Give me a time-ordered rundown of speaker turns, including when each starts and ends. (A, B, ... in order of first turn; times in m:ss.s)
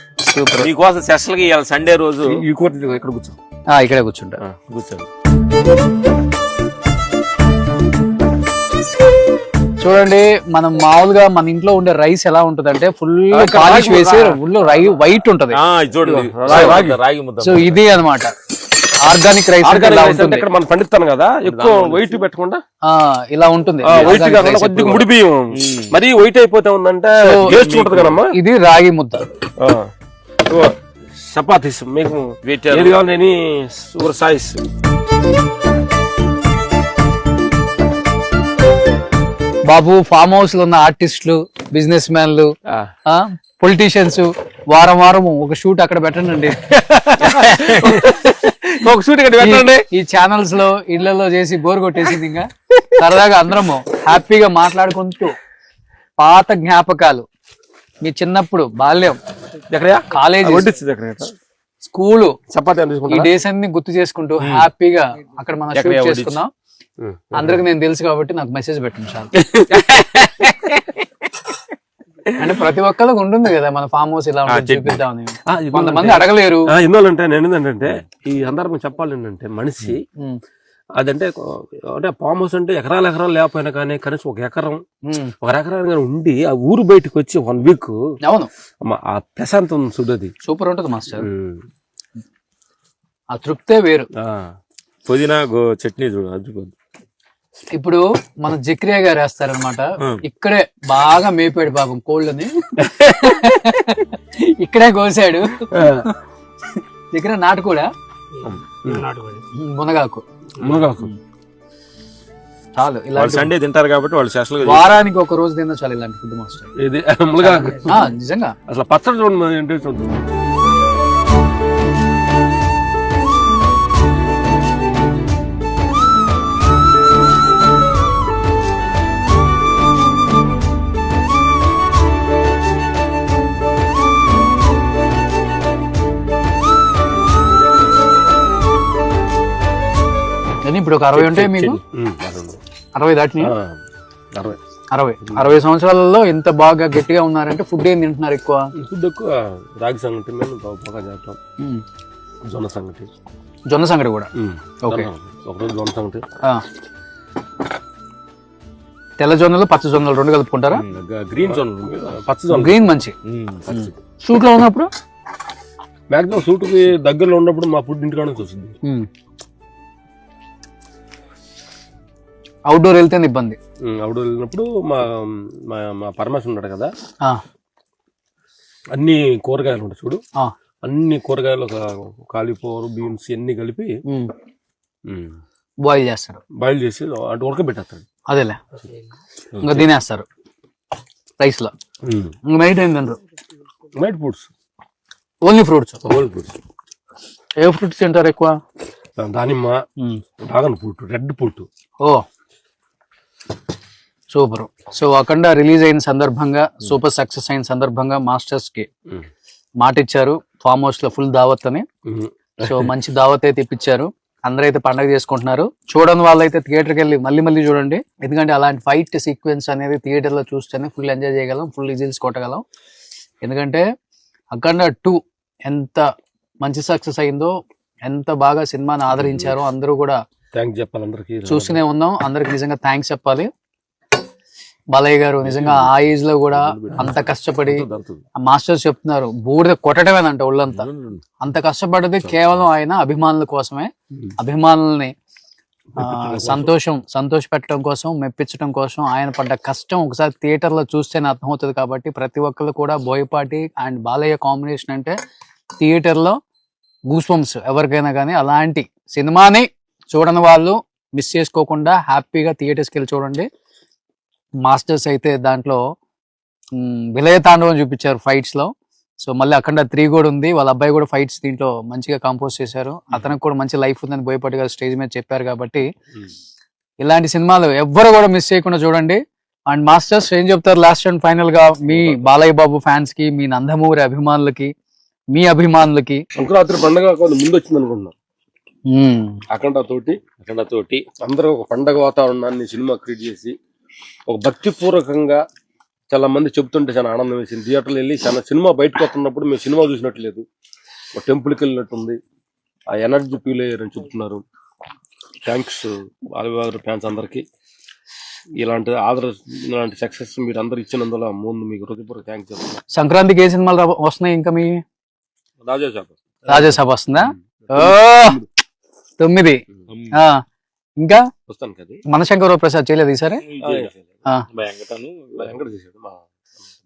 0:00.2-0:00.7 A
0:00.6-0:02.4 B
0:02.3-0:03.4 C
0:03.7-0:04.4 A
0:04.4-0:05.1 C
0:09.8-0:16.9 A
0:13.3-0:14.4 C
0:13.6-0:14.2 B
0:15.5-0:17.8 B
0:16.1-0:17.0 C
0:17.4-0:18.3 A
0:19.0-0:20.5 A
0:19.6-0:22.6 C
0:21.4-0:22.2 B
0:22.8-0:25.1 A
0:23.8-0:28.4 C
0:23.8-0:24.4 B
0:25.5-0:25.9 B
0:27.2-0:27.6 A
0:27.4-0:28.2 B
0:28.3-0:29.3 A
0:29.6-0:29.9 C
0:30.5-0:34.6 C
0:32.4-0:33.0 B
0:39.7-0:42.5 A
0:43.1-0:46.6 A
0:46.9-0:48.2 C
0:47.2-0:49.6 B
0:48.8-0:49.8 C
0:49.4-0:55.4 A
0:56.2-0:57.3 A
0:58.0-0:59.2 A
0:59.7-1:01.3 C
1:00.1-1:00.7 A
1:01.8-1:02.4 A
1:02.5-1:03.3 C
1:03.1-1:06.5 A
1:04.4-1:04.7 B
1:05.7-1:06.4 B
1:07.0-1:07.6 C
1:07.3-1:09.3 A
1:09.4-1:09.7 C
1:09.7-1:10.8 B
1:12.4-1:16.7 A
1:14.5-1:15.0 B
1:15.5-1:20.0 C
1:21.0-1:24.8 C
1:25.1-1:25.3 A
1:25.4-1:28.0 C
1:28.2-1:28.5 A
1:28.8-1:30.3 C
1:30.4-1:31.3 A
1:31.2-1:31.6 C
1:33.3-1:34.1 A
1:34.2-1:34.5 C
1:35.1-1:36.7 B
1:37.8-1:46.1 A
1:45.7-1:46.1 C
1:47.1-1:47.9 A
1:48.8-1:49.1 C
1:49.6-1:50.2 A
1:50.6-1:51.1 C
1:52.8-1:53.5 A
1:53.2-1:54.9 B
1:54.6-1:56.7 A
1:56.8-1:58.0 C
1:57.5-1:58.6 A
1:58.7-2:00.2 C
2:20.6-2:21.8 A
2:21.2-2:22.6 C
2:21.3-2:21.7 B
2:23.0-2:23.5 A
2:23.4-2:23.8 C
2:24.9-2:28.7 A
2:28.8-2:31.4 C
2:32.5-2:33.1 C
2:33.7-2:34.3 A
2:34.4-2:36.2 C
2:34.8-2:35.1 A
2:39.2-2:40.8 A
2:40.7-2:41.2 B
2:41.1-2:42.9 C
2:42.5-2:43.2 A
2:43.3-2:43.9 B
2:43.7-2:44.9 A
2:46.1-2:48.8 C
2:52.7-2:53.6 A
2:53.8-2:56.9 C
2:59.0-3:00.2 C
3:00.8-3:04.0 C
3:04.1-3:04.3 A
3:05.1-3:05.4 C
3:05.8-3:06.4 A
3:06.6-3:08.0 C
3:08.3-3:08.6 A
3:09.6-3:09.9 C
3:09.6-3:10.3 A
3:11.4-3:11.7 A
3:12.0-3:12.3 C
3:12.5-3:13.2 A
3:14.0-3:14.5 C
3:15.4-3:16.0 A
3:16.0-3:16.6 C
3:17.6-3:18.6 A
3:19.2-3:19.8 C
3:20.4-3:21.7 C
3:24.3-3:28.9 A
3:29.8-3:31.9 A
3:32.1-3:32.9 C
3:32.6-3:42.6 A
3:43.4-3:43.8 A
3:44.5-3:46.0 A
3:46.6-3:47.5 A
3:48.1-3:50.2 A
3:49.2-3:49.5 C
3:50.5-3:51.8 C
3:51.5-3:53.5 A
3:54.9-3:57.9 A
3:55.4-3:58.2 C
3:58.4-4:00.9 A
4:00.8-4:01.2 B
4:01.4-4:05.1 A
4:06.0-4:06.7 C
4:06.0-4:15.2 A
4:15.8-4:16.4 A
4:17.1-4:23.5 A
4:24.6-4:25.8 A
4:26.8-4:28.7 A
4:29.2-4:35.9 A
4:37.0-4:44.7 A
4:41.9-4:42.3 C
4:45.3-4:46.2 A
4:46.3-4:48.1 C
4:48.9-4:49.4 A
4:49.5-4:50.2 C
4:50.4-4:51.0 B
4:51.2-4:53.5 C
4:54.3-4:55.4 C
4:56.1-5:00.4 C
5:01.2-5:02.2 C
5:02.9-5:04.4 C
5:05.5-5:07.4 C
5:08.6-5:12.7 C
5:13.0-5:14.8 A
5:15.6-5:18.4 C
5:16.5-5:18.4 A
5:19.2-5:19.6 A
5:19.9-5:20.2 B
5:20.1-5:20.4 A
5:21.5-5:22.0 C
5:22.1-5:23.4 A
5:23.4-5:23.9 B
5:23.6-5:24.1 C
5:24.5-5:25.5 B
5:25.4-5:26.7 C